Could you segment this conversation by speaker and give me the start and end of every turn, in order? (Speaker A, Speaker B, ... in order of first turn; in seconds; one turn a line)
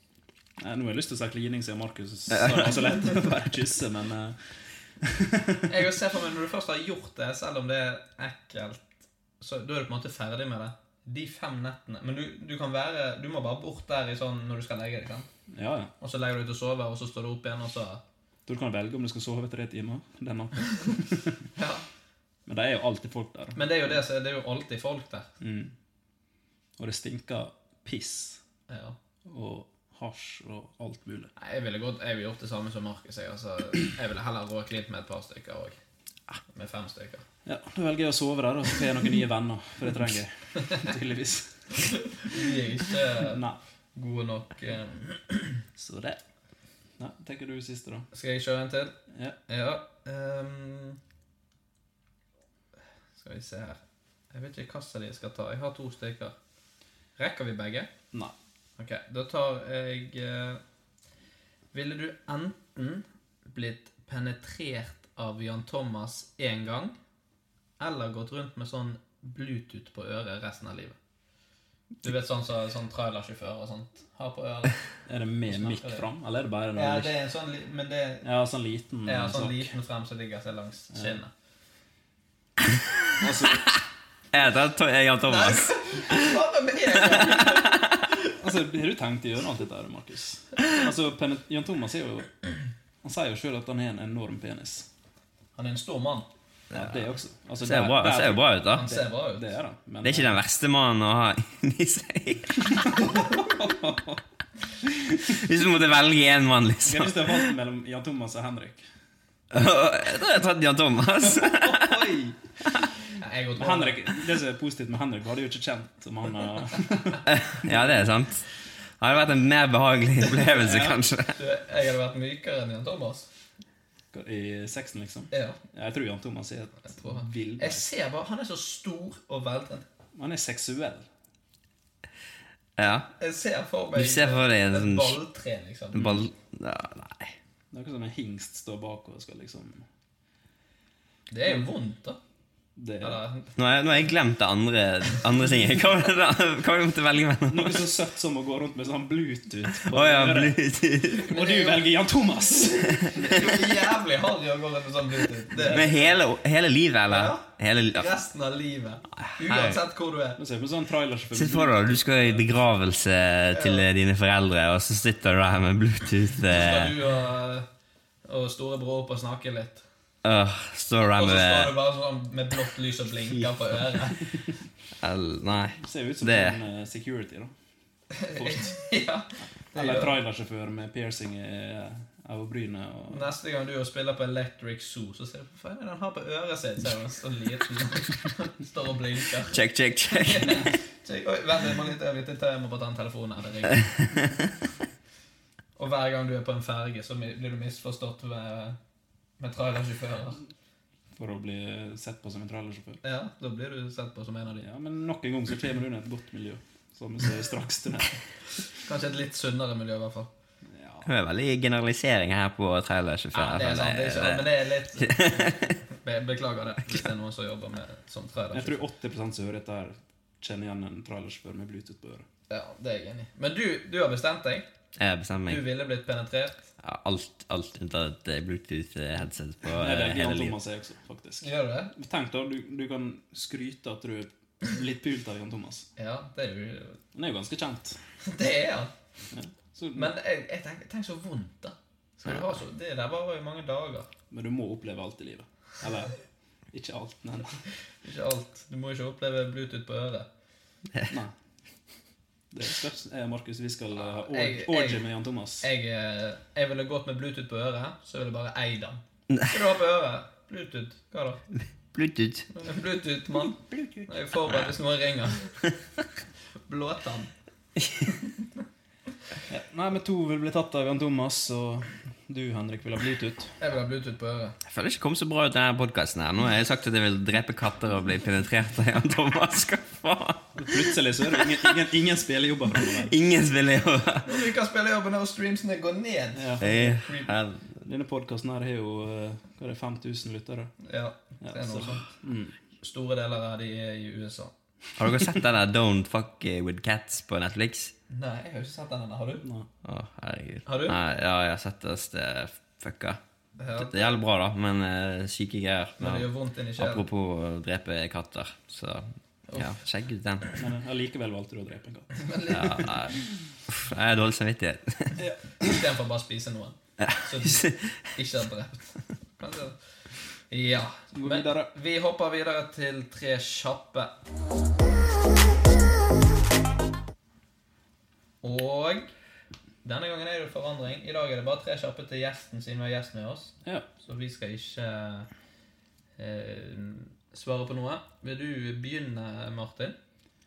Speaker A: 0.6-4.4
Speaker A: 5.0-5.6
Speaker B: 5.7-15.3
Speaker A: 15.5-15.9
Speaker B: 16.0-18.0
Speaker A: 18.5-21.3
Speaker B: 21.6-21.8
Speaker A: 22.5-24.0
Speaker B: 23.5-25.3
Speaker A: 25.4-25.7
Speaker A: 26.8-28.4
Speaker B: 28.7-28.9
Speaker A: 29.2-31.3
Speaker B: 31.4-35.8
Speaker B: 36.5-37.2
Speaker A: 37.5-41.9
Speaker B: 42.3-43.4
Speaker A: 43.3-43.6
Speaker B: 44.0-45.5
Speaker A: 45.8-46.2
Speaker A: 47.0-48.1
Speaker B: 48.1-49.0
Speaker B: 49.5-51.0
Speaker B: 53.2-53.8
Speaker B: 54.3-56.3
Speaker B: 57.2-57.9
Speaker B: 58.8-60.6
Speaker B: 61.7-67.0
Speaker B: 67.8-71.0
Speaker B: 72.0-74.8
Speaker A: 75.1-77.1
Speaker B: 75.5-76.0
Speaker B: 76.7-78.3
Speaker A: 78.2-79.7
Speaker B: 79.0-81.3
Speaker A: 80.9-81.2
Speaker A: 83.2-83.6
Speaker C: 84.3-86.3
Speaker B: 85.3-87.8
Speaker C: 87.3-87.6
Speaker A: 88.4-92.3
Speaker A: 93.0-94.9
Speaker B: 95.5-96.3
Speaker C: 96.7-97.0
Speaker A: 96.7-100.4
Speaker C: 97.6-98.9
Speaker B: 98.7-99.5
Speaker C: 100.0-102.8
Speaker A: 102.8-104.2
Speaker C: 105.2-107.4
Speaker A: 106.8-108.8
Speaker C: 109.5-112.0
Speaker A: 111.3-112.3
Speaker B: 113.2-114.0
Speaker A: 113.6-118.0
Speaker C: 117.2-118.4
Speaker C: 119.0-121.4
Speaker A: 120.6-121.0
Speaker B: 121.3-123.3
Speaker A: 124.1-127.9
Speaker B: 125.3-125.6
Speaker B: 127.0-129.8
Speaker A: 130.1-131.0
Speaker C: 132.8-133.1
Speaker B: 133.2-136.2
Speaker C: 133.9-135.2
Speaker C: 135.9-137.3
Speaker A: 137.7-139.8
Speaker B: 141.3-142.2
Speaker A: 142.8-143.2
Speaker B: 143.0-143.5
Speaker C: 143.6-147.9
Speaker A: 147.5-150.6
Speaker C: 149.8-151.3
Speaker A: 151.2-153.8
Speaker B: 151.3-151.8
Speaker B: 153.1-156.1
Speaker A: 155.5-156.0
Speaker C: 155.7-158.2
Speaker B: 157.1-160.4
Speaker C: 159.3-159.8
Speaker A: 160.4-162.4
Speaker C: 161.3-166.9
Speaker B: 163.5-163.8
Speaker B: 166.5-167.7
Speaker B: 168.3-169.8
Speaker C: 170.2-171.8
Speaker B: 171.2-174.2
Speaker C: 175.0-176.6
Speaker A: 175.8-177.5
Speaker B: 178.1-180.2
Speaker A: 178.3-178.8
Speaker A: 179.7-183.3
Speaker B: 183.1-189.6
Speaker C: 189.5-190.6
Speaker B: 190.1-193.9
Speaker B: 195.8-198.8
Speaker B: 199.4-200.4
Speaker A: 201.2-203.0
Speaker B: 203.0-204.7
Speaker A: 204.6-208.2
Speaker B: 208.8-210.3
Speaker A: 210.7-211.1
Speaker C: 211.0-215.7
Speaker B: 213.3-218.8
Speaker A: 218.5-222.2
Speaker B: 222.5-224.7
Speaker C: 225.0-225.6
Speaker B: 225.5-226.7
Speaker C: 226.8-230.6
Speaker A: 229.7-235.9
Speaker B: 231.4-231.9
Speaker B: 236.0-237.0
Speaker A: 237.1-238.0
Speaker B: 238.3-238.9
Speaker A: 239.3-240.1
Speaker B: 239.9-244.1
Speaker A: 244.3-246.2
Speaker A: 246.7-247.6
Speaker B: 248.0-250.3
Speaker A: 251.1-251.3
Speaker A: 252.5-255.7
Speaker B: 253.9-255.1
Speaker B: 255.6-261.4
Speaker C: 261.9-262.5
Speaker B: 262.5-265.5
Speaker B: 266.7-267.3
Speaker A: 269.5-273.5
Speaker B: 273.6-274.6
Speaker C: 274.6-280.8
Speaker A: 280.6-283.1
Speaker C: 282.9-284.3
Speaker B: 284.2-287.3
Speaker A: 286.3-286.7
Speaker C: 286.6-287.7
Speaker A: 287.8-290.7
Speaker B: 290.8-292.2
Speaker A: 291.4-292.6
Speaker B: 292.8-294.5
Speaker C: 295.0-297.9
Speaker B: 298.1-299.4
Speaker A: 299.4-299.7
Speaker C: 299.8-303.2
Speaker B: 300.6-301.0
Speaker B: 303.6-304.2
Speaker C: 303.8-310.5
Speaker B: 306.0-307.0
Speaker A: 310.6-312.5
Speaker B: 312.2-312.9
Speaker C: 312.5-313.2
Speaker C: 313.7-315.2
Speaker A: 315.2-315.7
Speaker B: 315.6-319.8
Speaker C: 317.0-317.9
Speaker B: 320.5-324.1
Speaker A: 321.1-321.7
Speaker B: 328.4-329.1
Speaker B: 329.8-335.3
Speaker B: 336.2-339.9